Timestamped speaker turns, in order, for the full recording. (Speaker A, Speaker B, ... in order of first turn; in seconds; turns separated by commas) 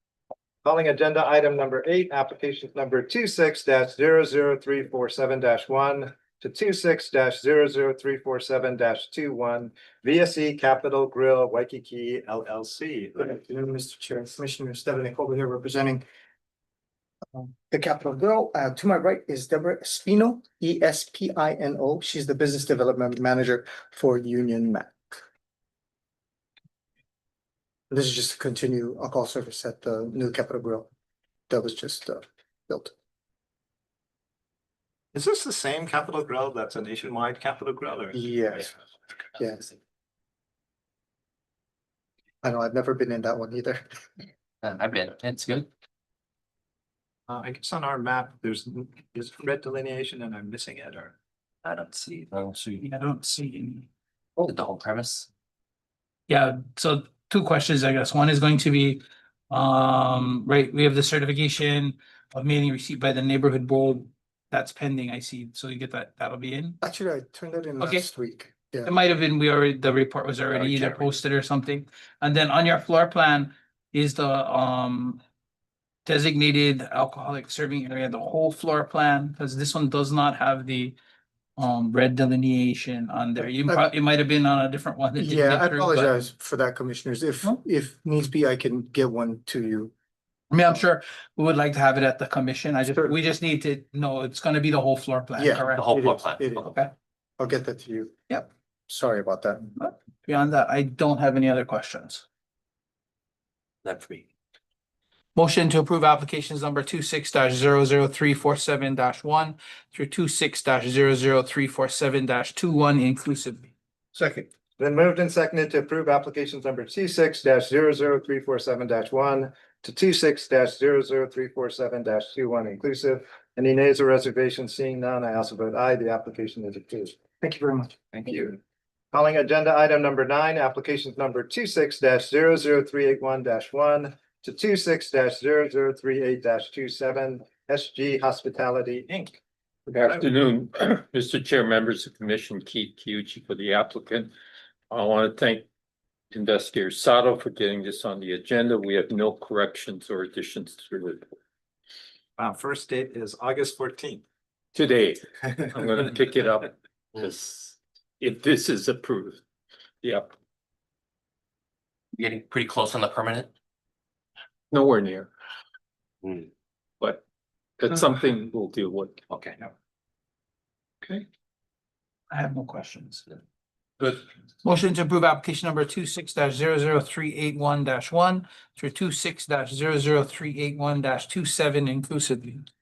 Speaker A: 0.6-13.2, Speaker B: 13.2-16.0, Speaker B: 17.3-25.2, Speaker B: 27.9-30.9, Speaker B: 31.5-32.9, Speaker A: 35.1-38.2, Speaker B: 38.1-38.7, Speaker B: 39.4-39.6, Speaker B: 42.4-43.9, Speaker C: 44.6-45.7, Speaker A: 47.3-51.1, Speaker C: 51.6-52.8, Speaker D: 52.8-53.9, Speaker C: 54.4-55.3, Speaker D: 56.3-66.8, Speaker B: 66.8-68.9, Speaker D: 67.8-68.1, Speaker D: 68.8-75.2, Speaker C: 70.5-71.1, Speaker D: 76.0-81.0, Speaker D: 81.6-86.1, Speaker B: 85.2-89.9, Speaker D: 90.5-95.8, Speaker B: 95.3-96.8, Speaker C: 95.7-96.7, Speaker B: 97.4-99.7, Speaker D: 99.8-102.2, Speaker C: 103.8-104.3, Speaker D: 105.3-113.7, Speaker A: 114.8-127.2, Speaker B: 127.4-127.9, Speaker A: 128.1-128.6, Speaker A: 129.1-139.4, Speaker E: 139.9-144.3, Speaker E: 144.9-145.7, Speaker E: 146.3-151.2, Speaker A: 152.4-154.2, Speaker E: 154.7-159.4, Speaker E: 160.0-160.3, Speaker C: 162.1-163.5, Speaker E: 164.7-165.3, Speaker E: 167.8-169.2, Speaker D: 172.3-173.2, Speaker D: 174.6-182.6